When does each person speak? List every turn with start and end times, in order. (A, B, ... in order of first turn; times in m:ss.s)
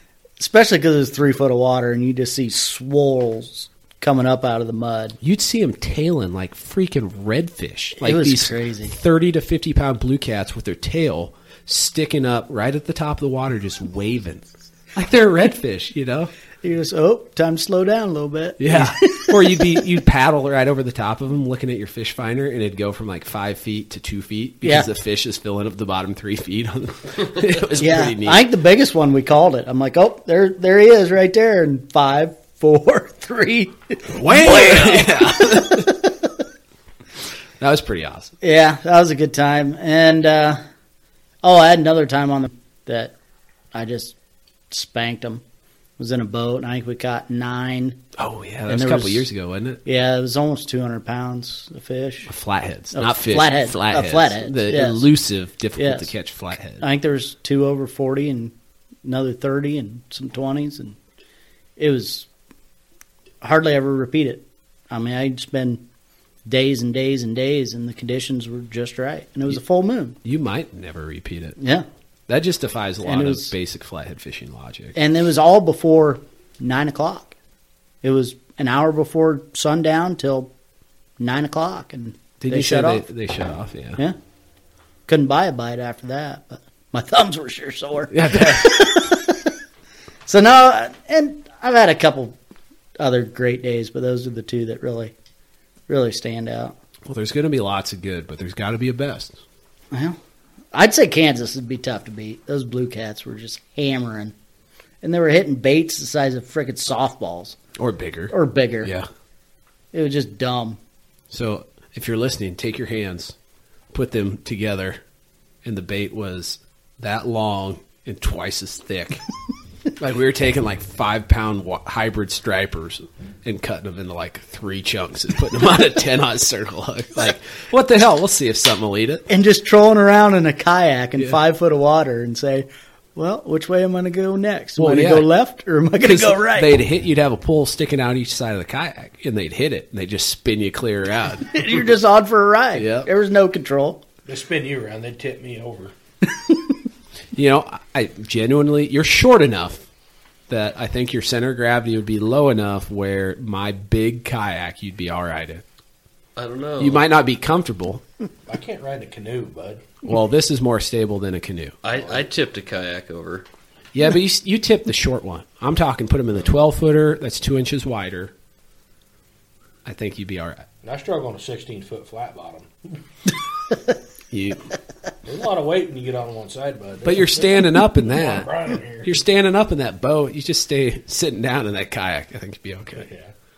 0:00.4-0:05.2 A
0:05.2-0:16.3 B
0:08.0-0:09.0 A
0:16.6-0:19.7 A
0:18.6-0:28.4 B
0:24.6-0:24.9 A
0:27.8-0:36.1 A
0:34.1-0:35.9 B
0:37.6-0:38.4 B
0:38.4-0:40.6 A
0:41.4-0:43.2 A
0:43.7-0:44.2 A
0:44.7-0:45.4 A
0:46.0-0:48.0 A
0:48.2-0:49.8 B
0:48.7-0:49.3 A
0:49.8-0:52.3 A
0:52.3-0:56.8 B
0:52.9-0:55.1 A
0:55.8-0:56.1 A
0:56.8-1:01.0 A
1:01.8-1:02.3 A
1:03.4-1:05.8 A
1:06.5-1:10.2 A
1:10.2-1:11.6 B
1:11.6-1:11.9 A
1:12.3-1:15.0 B
1:13.0-1:13.5 A
1:15.0-1:17.4 A
1:18.0-1:20.5 A
1:21.2-1:23.0 A
1:22.4-1:24.0 B
1:25.1-1:29.5 A
1:28.1-1:29.1 B
1:30.3-1:32.4 A
1:33.0-1:35.1 A
1:35.9-1:36.7 A
1:37.1-1:39.4 B
1:39.9-1:40.2 A
1:40.7-1:44.3 A
1:45.0-1:47.6 A
1:47.8-1:49.1 B
1:48.3-1:48.9 A
1:49.9-1:50.8 A
1:51.3-1:53.4 B
1:53.9-1:55.0 B
1:55.6-1:59.2 B
2:00.0-2:09.3 B
2:09.3-2:16.8 A
2:14.8-2:15.3 B
2:16.0-2:21.8 B
2:21.5-2:24.0 A
2:22.8-2:23.1 B
2:24.3-2:25.9 C
2:27.3-2:29.9 B
2:30.5-2:35.6 B
2:36.4-2:37.0 D
2:36.8-2:38.0 B
2:38.5-2:39.8 C
2:40.0-2:41.8 B
2:41.8-2:43.5 D
2:43.9-2:48.3 B
2:49.8-2:50.7 B
2:50.8-2:52.7 C
2:54.3-2:54.7 B
2:55.2-2:59.1 C
2:57.0-2:58.5 B
2:59.0-3:03.1 B
3:03.0-3:03.3 C